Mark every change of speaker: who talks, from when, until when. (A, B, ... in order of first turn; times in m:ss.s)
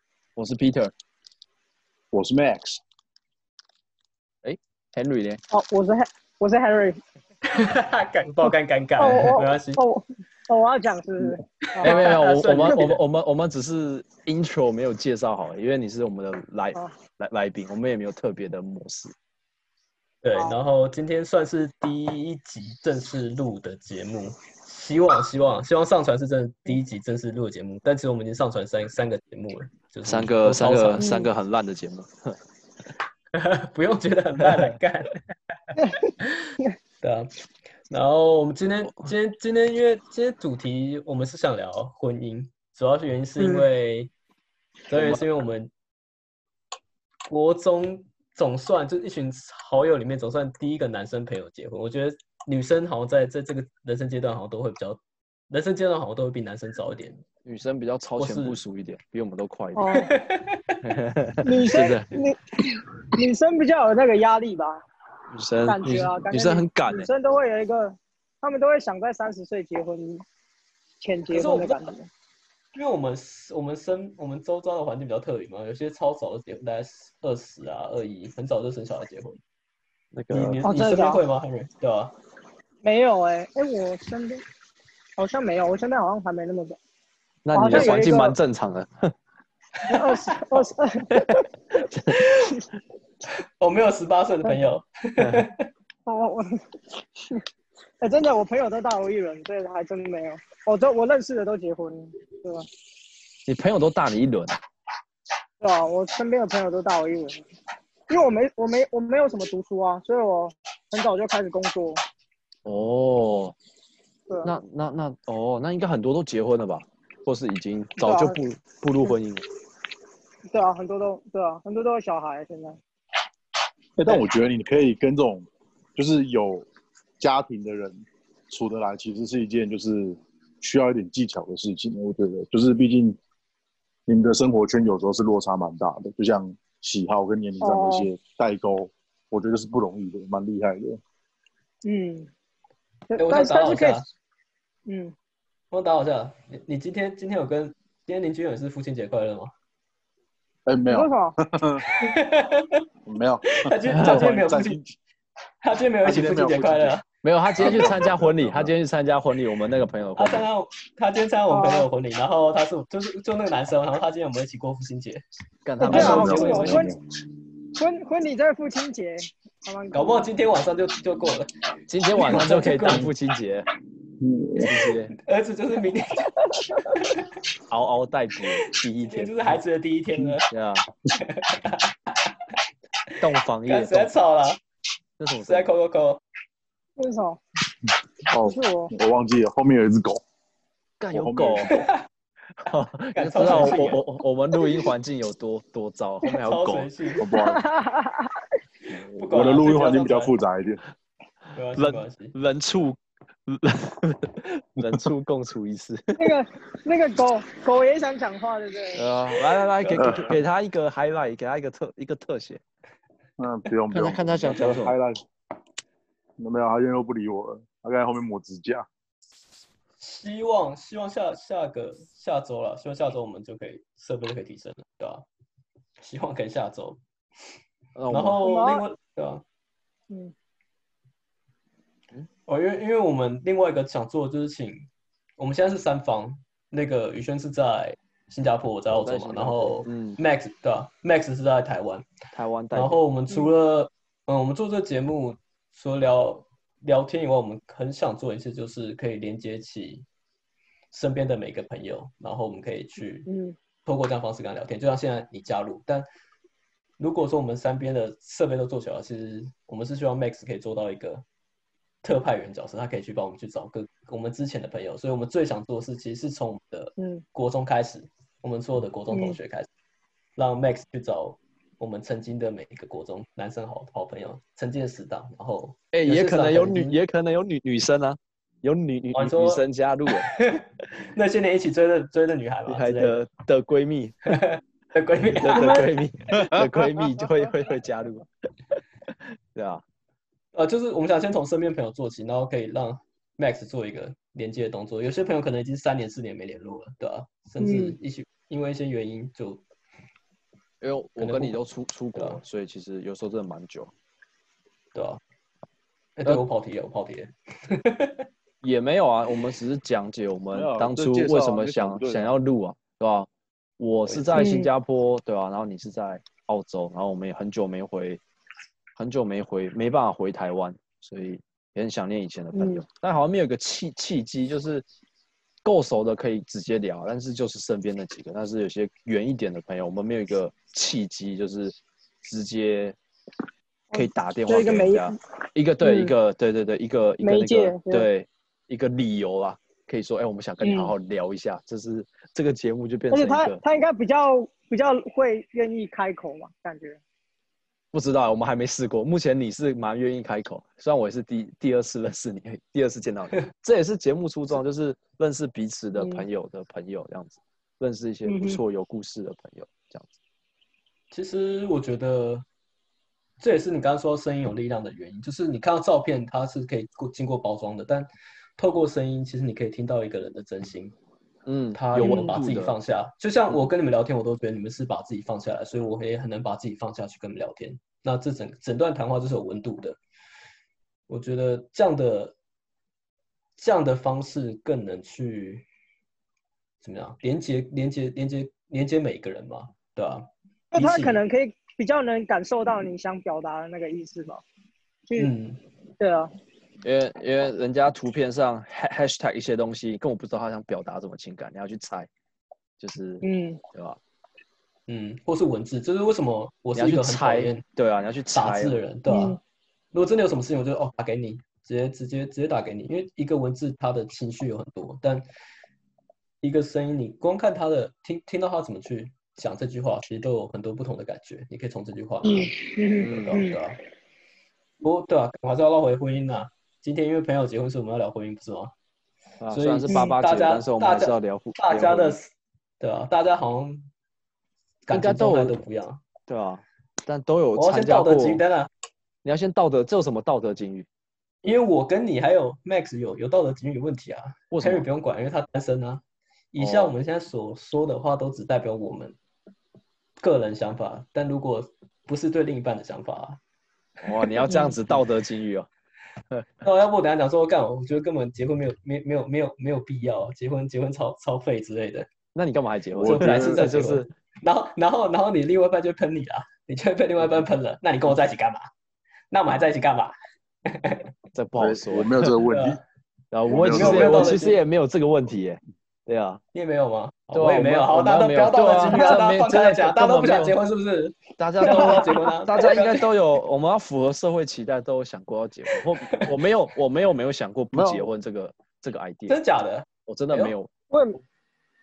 0:00.4-0:00.9 A
0:02.1-0:02.8 B
0:04.4-0:05.4 A
0:05.5-0:07.0 C
0:07.5-0:09.8 D
0:09.0-0:12.8 C
0:11.7-0:13.0 D
0:11.8-0:19.1 A
0:20.2-0:31.1 D
0:30.0-0:32.4 A
0:31.0-0:31.3 C
0:33.3-0:35.2 D
0:34.4-0:34.8 A
0:35.7-0:37.3 D
0:37.9-0:44.1 D
0:44.9-0:45.7 D
0:45.0-0:45.2 A
0:47.3-0:57.2 D
0:57.4-1:00.0 A
0:58.2-0:58.6 D
0:59.8-1:00.1 C
1:00.1-1:00.8 D
1:00.8-1:02.1 A
1:01.4-1:04.8 C
1:05.3-1:07.1 A
1:05.6-1:10.2 C
1:11.0-1:12.1 C
1:11.3-1:11.8 D
1:12.8-1:19.4 D
1:20.1-1:20.6 A
1:20.3-1:22.1 D
1:20.6-1:21.2 C
1:22.8-1:24.4 C
1:25.2-1:26.8 C
1:27.4-1:29.1 A
1:27.5-1:28.4 C
1:29.8-1:30.4 D
1:29.9-1:31.2 C
1:31.1-1:32.2 A
1:32.1-1:32.6 D
1:33.6-1:35.7 D
1:35.2-1:35.4 A
1:36.1-1:37.4 C
1:38.0-1:42.7 C
1:43.5-1:44.6 A
1:45.6-1:47.4 C
1:48.1-1:52.0 C
1:52.6-1:53.6 A
1:54.3-1:54.5 C
1:54.4-1:59.4 A
1:58.0-1:58.4 C
2:00.5-2:02.8 C
2:04.0-2:06.7 B
2:07.2-2:13.2 B
2:14.1-2:21.0 B
2:17.6-2:18.1 C
2:21.8-2:22.3 C
2:23.1-2:24.0 C
2:23.2-2:24.0 D
2:24.9-2:25.1 C
2:25.7-2:29.5 D
2:30.7-2:31.9 B
2:30.9-2:31.4 C
2:31.8-2:32.8 D
2:33.0-2:34.9 B
2:33.6-2:34.8 D
2:33.9-2:34.4 A
2:35.6-2:37.0 D
2:36.0-2:37.0 B
2:37.2-2:40.5 A
2:37.6-2:38.7 B
2:40.2-2:45.2 D
2:41.5-2:41.9 C
2:45.6-2:46.9 A
2:45.8-2:47.0 C
2:45.8-2:47.0 B
2:45.9-2:46.7 D
2:47.8-2:50.3 C
2:49.9-2:51.5 D
2:51.9-2:53.7 A
2:52.1-2:53.1 D
2:54.2-2:54.7 B
2:54.6-2:55.1 A
2:55.2-2:56.3 D
2:56.9-2:57.3 D
2:57.7-2:59.6 A
2:59.0-3:00.5 D
3:00.5-3:00.8 A
3:01.2-3:02.3 D
3:03.2-3:04.1 A
3:03.6-3:04.6 D
3:05.2-3:05.7 A
3:05.4-3:06.2 D
3:07.0-3:07.4 C
3:08.3-3:10.2 B
3:08.4-3:08.9 C
3:11.0-3:11.7 A
3:11.1-3:11.9 B
3:11.7-3:12.0 D
3:12.6-3:16.9 A
3:13.1-3:14.0 D
3:16.3-3:17.3 D
3:17.2-3:17.7 B
3:17.3-3:18.5 C
3:18.9-3:20.8 B
3:19.2-3:20.3 D
3:21.5-3:22.4 D
3:21.8-3:26.4 A
3:26.2-3:29.1 C
3:28.9-3:32.6 A
3:29.8-3:30.4 B
3:33.4-3:35.2 B
3:33.9-3:35.0 A
3:36.4-3:38.9 B
3:40.0-3:45.3 D
3:46.0-3:47.0 D
3:48.0-3:48.4 A
3:48.1-3:49.4 D
3:48.4-3:48.8 C
3:52.5-4:02.1 D
3:58.9-4:00.2 A
4:02.3-4:03.0 A
4:02.7-4:10.1 D
4:10.9-4:13.3 D
4:13.3-4:13.6 C
4:13.8-4:16.1 D
4:17.0-4:21.2 D
4:22.0-4:29.7 D
4:27.0-4:27.2 C
4:29.1-4:29.4 C
4:30.4-4:37.0 D
4:35.9-4:40.3 A
4:39.1-4:39.6 D
4:40.2-4:43.2 D
4:42.7-4:44.2 A
4:44.3-4:45.9 D
4:45.4-4:48.3 A
4:45.5-4:45.9 C
4:49.1-4:49.8 A
4:50.5-4:59.6 D
4:57.6-4:58.0 C
5:00.8-5:03.9 A
5:01.2-5:01.6 D
5:02.2-5:02.4 D
5:04.9-5:05.2 D
5:06.2-5:08.2 D
5:08.6-5:18.2 A
5:10.5-5:12.3 B
5:14.1-5:14.6 D
5:14.4-5:14.7 C
5:19.0-5:24.8 A
5:22.5-5:22.8 C
5:25.6-5:33.0 A
5:33.9-5:35.2 C
5:33.9-5:43.6 A
5:35.8-5:36.2 C
5:37.2-5:38.1 C
5:40.6-5:40.9 C
5:43.1-5:47.0 C
5:47.9-6:00.2 A
5:56.0-5:56.2 C
5:58.2-5:58.6 C
6:01.1-6:02.4 D
6:03.4-6:11.0 D
6:11.5-6:12.8 A
6:11.7-6:20.0 D
6:12.0-6:12.3 C
6:21.1-6:22.4 D
6:23.6-6:25.6 D
6:26.8-6:31.2 D
6:30.7-6:34.4 C
6:35.2-6:35.6 D
6:36.0-6:36.3 C
6:36.8-6:42.1 A
6:42.8-6:44.0 A
6:43.2-6:43.6 C
6:44.9-6:47.6 D
6:46.8-6:48.8 A
6:48.4-6:49.4 D
6:49.1-6:49.4 C
6:49.9-6:55.2 D
6:56.4-7:03.8 D
7:02.2-7:03.6 C
7:03.0-7:03.5 A
7:04.8-7:08.7 D
7:09.4-7:12.2 A
7:09.5-7:13.9 D
7:14.9-7:16.0 D
7:14.9-7:15.6 A
7:16.3-7:18.4 A
7:17.6-7:18.7 D
7:19.2-7:20.9 A
7:21.4-7:29.2 D
7:24.5-7:24.9 A
7:26.6-7:27.0 A
7:30.2-7:33.4 D
7:34.0-7:35.7 A
7:34.1-7:35.0 D
7:34.5-7:34.7 C
7:36.6-7:42.1 D
7:42.4-7:44.1 A
7:43.0-7:43.8 B
7:43.1-7:48.7 D
7:49.3-7:50.2 D
7:50.7-7:51.1 D
7:51.3-7:52.2 A
7:51.6-7:52.8 B
7:52.5-7:52.8 D
7:53.3-7:56.4 A
7:53.5-7:54.4 B
7:53.6-7:54.6 D
7:56.5-8:03.1 D
7:57.3-8:00.6 A
7:58.9-7:59.2 C
8:01.4-8:09.4 A
8:01.7-8:02.0 C
8:07.7-8:08.1 B
8:09.3-8:10.6 D
8:10.1-8:10.7 A
8:10.9-8:11.2 C